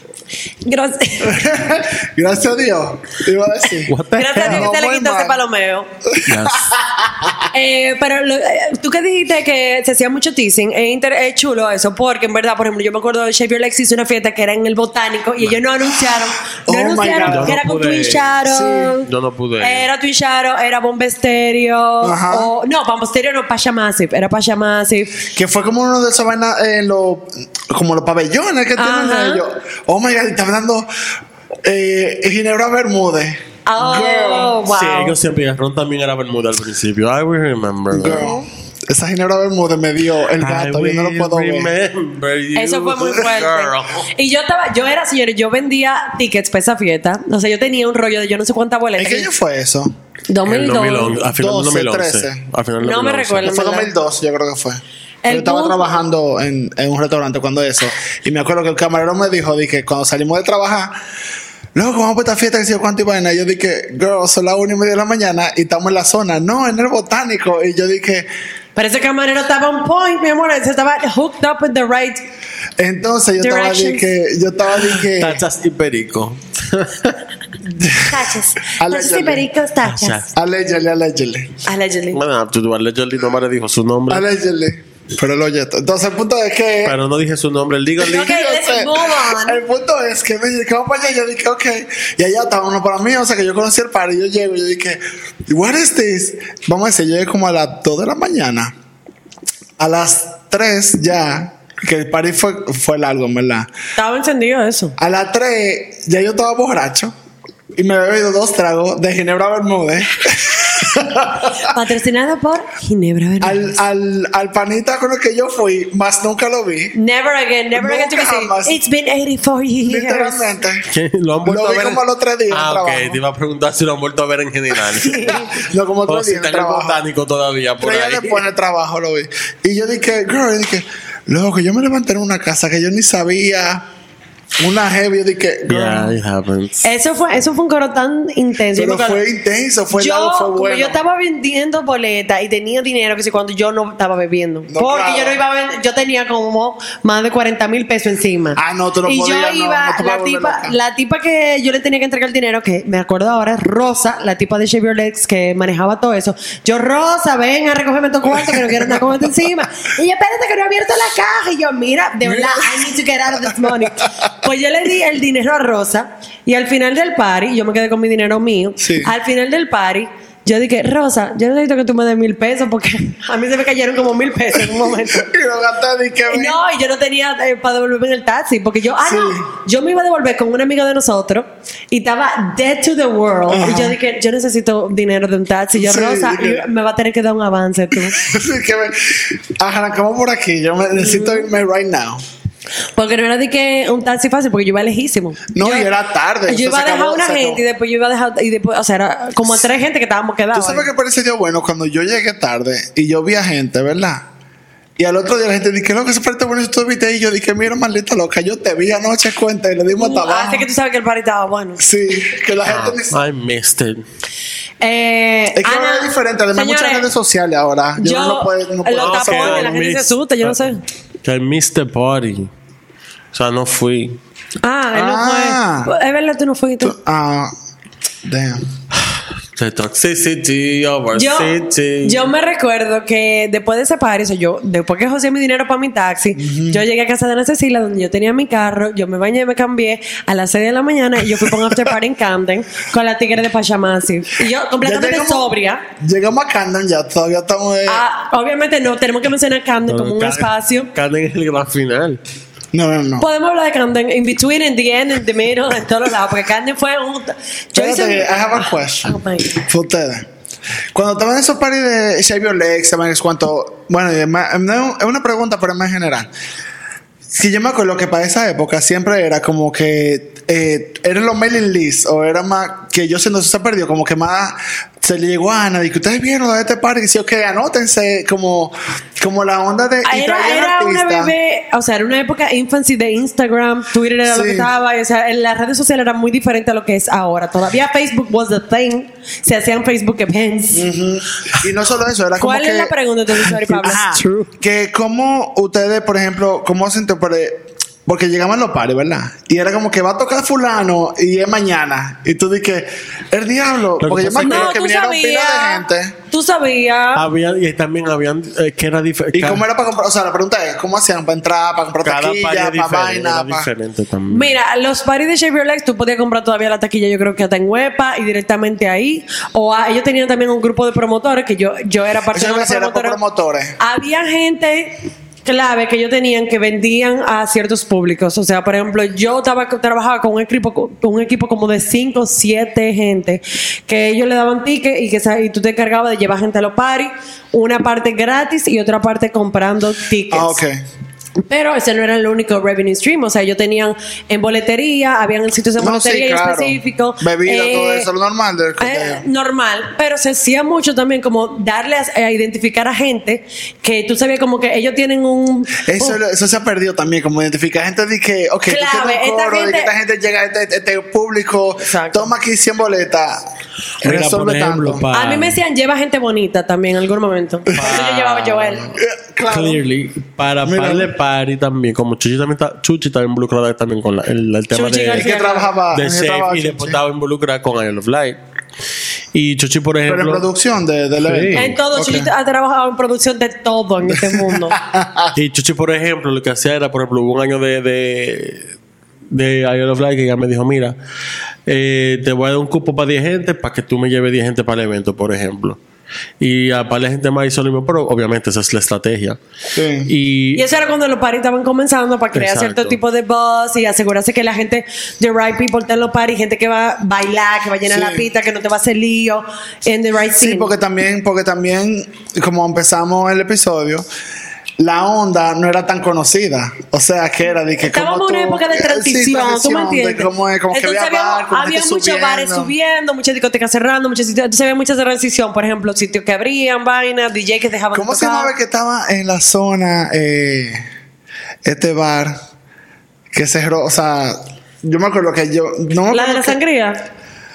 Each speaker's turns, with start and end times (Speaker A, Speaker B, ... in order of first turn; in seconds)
Speaker A: 0.6-1.4, 4.2-5.9, 7.5-19.1, 19.6-25.3, 28.8-29.4, 33.7-35.2, 42.5-49.3, 50.3-51.2, 52.8-53.9, 55.2-55.9, 68.8-72.2, 73.4-74.1, 78.0-80.3, 81.7-82.2, 88.0-89.6, 104.0-105.0, 111.6-113.7, 116.9-120.5, 125.0-125.6, 136.8-139.2, 139.9-175.3, 176.3-188.2, 191.0-191.5, 193.0-195.9, 196.5-200.9, 209.9-211.8, 214.8-217.1, 218.0-220.8, 224.6-227.0, 231.2-245.8, 247.9-250.9, 253.2-258.3, 259.1-259.7, 280.1-290.9, 292.4-294.5, 304.4-307.2, 314.3-323.2, 323.8-340.6, 341.5-348.1, 348.8-356.2, 358.7-359.9, 361.8-362.3, 365.1-368.9, 374.7-375.7, 381.5-384.8, 400.6-410.7, 417.8-428.5, 436.1-437.0
Speaker B: 1.2-5.4, 6.0-7.5, 16.1-17.6, 18.4-19.0, 22.0-22.5, 25.3-30.9, 31.6-34.6, 37.9-41.7, 49.0-49.9, 51.2-52.4, 53.4-61.0, 61.8-68.3, 72.8-75.4, 77.7-79.5, 80.3-81.5, 84.1-87.0, 88.0-98.7, 99.8-103.7, 105.0-107.1, 107.8-111.8, 113.4-117.0, 117.8-118.8, 119.9-120.9, 121.5-123.2, 125.3-127.0, 127.8-133.9, 134.6-136.2, 138.8-141.0, 144.7-145.4, 148.6-150.8, 158.5-158.9, 162.2-164.3, 168.8-169.1, 175.0-176.6, 179.0-179.5, 183.5-184.0, 185.8-186.7, 188.0-192.2, 195.5-197.6, 200.5-204.3, 205.0-210.7, 211.8-213.2, 215.6-219.8, 224.9-225.9, 226.8-227.5, 228.2-228.7, 236.4-236.8, 241.4-241.8, 244.8-248.0, 252.7-253.3, 257.8-259.2, 259.7-260.3, 260.9-266.3, 267.3-281.3, 284.3-284.7, 290.7-306.2, 309.3-313.7, 322.3-323.8, 340.3-340.8, 345.8-349.2, 355.8-363.5, 364.0-365.1, 369.0-369.8, 370.6-371.1, 375.1-377.0, 380.1-382.3, 384.1-385.4, 399.7-400.1, 407.9-408.3, 410.3-414.1, 414.8-422.7, 427.9-430.9, 431.6-432.4, 433.3-436.6
Speaker C: 3.9-4.7, 6.2-6.7, 17.3-18.4, 19.0-19.9, 34.6-38.4, 40.4-44.1, 50.5-53.5, 74.8-77.2, 79.8-80.3, 82.1-84.2, 86.8-88.3, 120.9-125.5, 126.1-128.4, 135.7-136.8, 212.7-214.0, 219.0-220.7, 221.2-222.5, 223.3-224.2, 229.5-232.3, 249.9-252.2, 304.0-304.7, 307.1-309.6, 312.0-314.6, 364.0-365.6, 367.8-369.0, 369.5-375.3, 375.9-378.4, 379.3-380.4, 381.2-381.8, 385.4-388.7, 389.3-390.9, 391.7-395.8, 396.4-399.4, 400.1-400.6, 402.3-403.0